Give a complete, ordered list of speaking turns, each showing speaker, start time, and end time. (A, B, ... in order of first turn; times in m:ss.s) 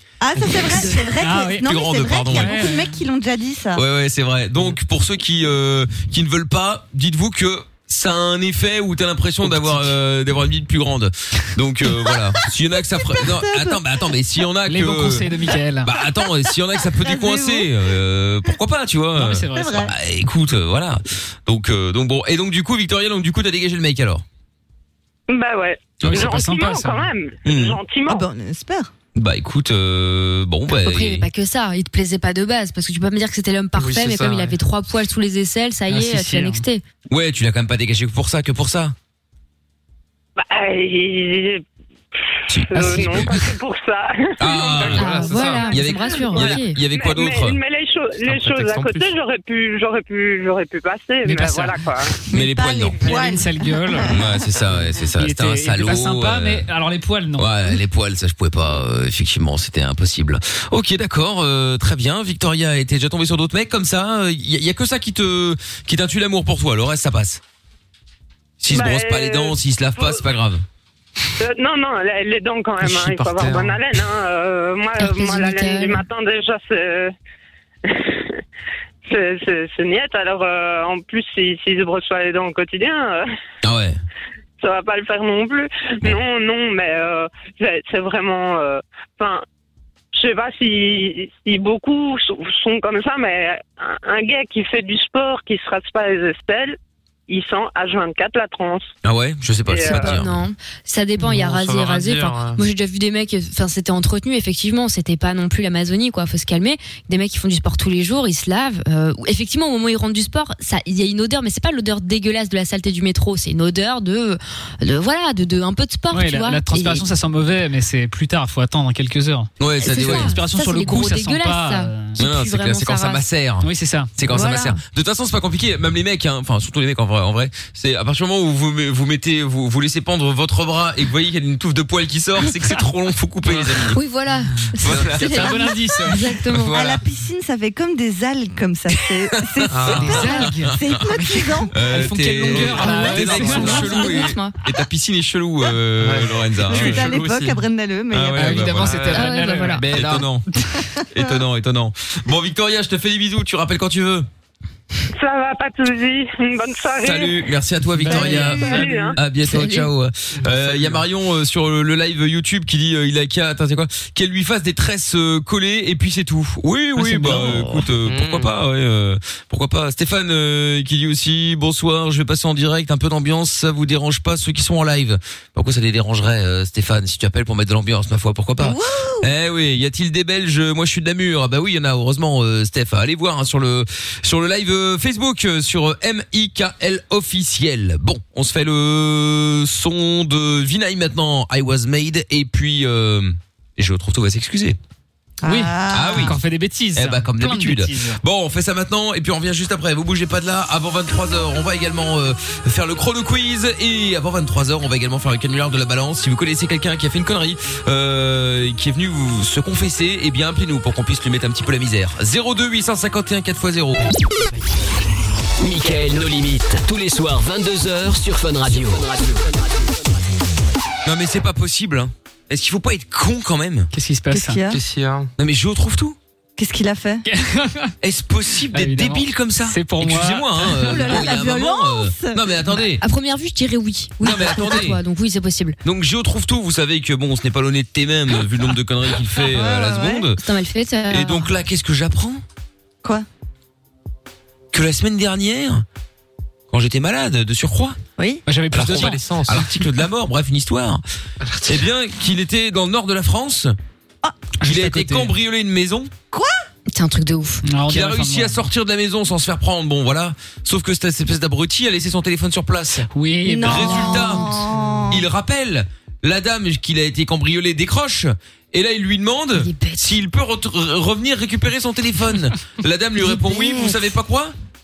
0:00.2-0:03.8 A
0:00.7-0:00.9 B
0:00.7-0:01.7 C
0:01.6-0:02.6 B
0:02.3-0:03.0 C
0:03.7-0:15.3 B
0:09.4-0:09.9 C
0:13.1-0:13.8 A
0:14.6-0:15.9 C
0:15.8-0:24.2 B
0:16.9-0:17.7 A
0:19.1-0:19.9 C
0:19.5-0:19.9 A
0:25.3-0:28.2 D
0:26.0-0:26.3 B
0:26.0-0:27.1 C
0:27.4-0:27.8 B
0:28.0-0:28.9 A
0:29.1-0:31.3 B
0:30.7-0:36.8 E
0:33.8-0:34.5 F
0:35.9-0:36.6 C
0:37.1-0:38.9 B
0:40.4-0:41.6 D
0:42.5-0:43.3 B
0:42.7-0:45.0 D
0:44.4-0:47.6 B
0:44.7-0:45.8 F
0:44.9-0:46.8 E
0:46.3-0:52.2 D
0:48.2-0:49.1 F
0:51.2-0:52.5 C
0:52.3-0:53.2 B
0:52.4-0:54.3 A
0:53.0-0:54.2 C
0:54.0-0:56.7 B
0:55.1-0:57.8 C
0:57.4-1:07.4 B
1:08.6-1:10.6 B
1:08.7-1:10.2 D
1:11.4-1:17.1 D
1:12.8-1:13.8 F
1:15.0-1:16.0 E
1:17.8-1:18.4 D
1:19.0-1:23.2 D
1:23.6-1:24.0 B
1:24.6-1:29.4 D
1:30.1-1:36.8 D
1:37.3-1:38.9 D
1:39.0-1:40.4 B
1:39.7-1:40.2 D
1:39.8-1:57.1 E
1:41.2-1:42.6 F
1:56.1-2:02.2 C
1:59.6-2:00.4 B
1:59.8-2:03.2 E
2:02.2-2:14.0 B
2:03.6-2:04.1 C
2:04.3-2:04.8 E
2:13.9-2:16.7 E
2:14.8-2:15.8 B
2:15.1-2:16.4 C
2:16.4-2:17.0 B
2:16.7-2:21.7 A
2:19.4-2:21.2 B
2:19.7-2:20.3 F
2:19.9-2:24.4 C
2:21.7-2:27.1 B
2:22.7-2:24.5 E
2:26.0-2:27.6 F
2:26.7-2:28.8 A
2:28.1-2:29.1 B
2:28.3-2:30.2 C
2:28.8-2:30.3 F
2:29.1-2:29.8 E
2:29.8-2:30.4 B
2:30.8-2:31.3 A
2:31.1-2:34.3 B
2:35.1-2:37.4 D
2:37.0-3:14.8 B
2:38.0-2:39.1 F
2:38.0-2:38.9 A
2:38.5-2:39.2 D
2:39.4-2:39.9 E
2:40.4-2:41.0 F
2:47.0-2:47.7 C
2:48.0-2:48.5 F
2:58.6-2:59.3 A
3:15.4-3:16.3 A
3:15.4-3:18.2 C
3:15.9-3:16.4 B
3:16.9-3:34.1 B
3:35.6-3:39.6 G
3:41.0-3:43.9 B
3:43.9-3:44.6 C
3:44.3-3:44.8 A
3:44.7-3:45.3 F
3:45.4-3:46.2 B
3:46.6-3:47.2 A
3:47.2-3:47.9 C
3:48.0-3:53.0 B
3:48.7-3:51.2 C
3:50.7-3:52.7 A
3:53.0-3:55.8 E
3:54.2-3:55.0 B
3:55.8-4:00.4 B
3:59.4-4:00.3 A
4:00.4-4:01.5 E
4:01.1-4:02.4 B
4:04.7-4:05.8 B
4:06.7-4:08.0 B
4:08.4-4:09.6 C
4:08.7-4:11.0 B
4:08.7-4:09.6 F
4:11.4-4:11.8 F
4:11.6-4:13.7 B
4:14.6-4:15.3 C
4:14.6-4:16.1 B
4:16.3-4:16.6 A
4:16.9-4:17.6 E
4:17.6-4:18.6 C
4:17.9-4:23.1 B
4:23.1-4:24.6 C
4:23.4-4:25.2 A
4:23.6-4:34.5 B
4:29.5-4:30.2 E
4:33.3-4:34.0 A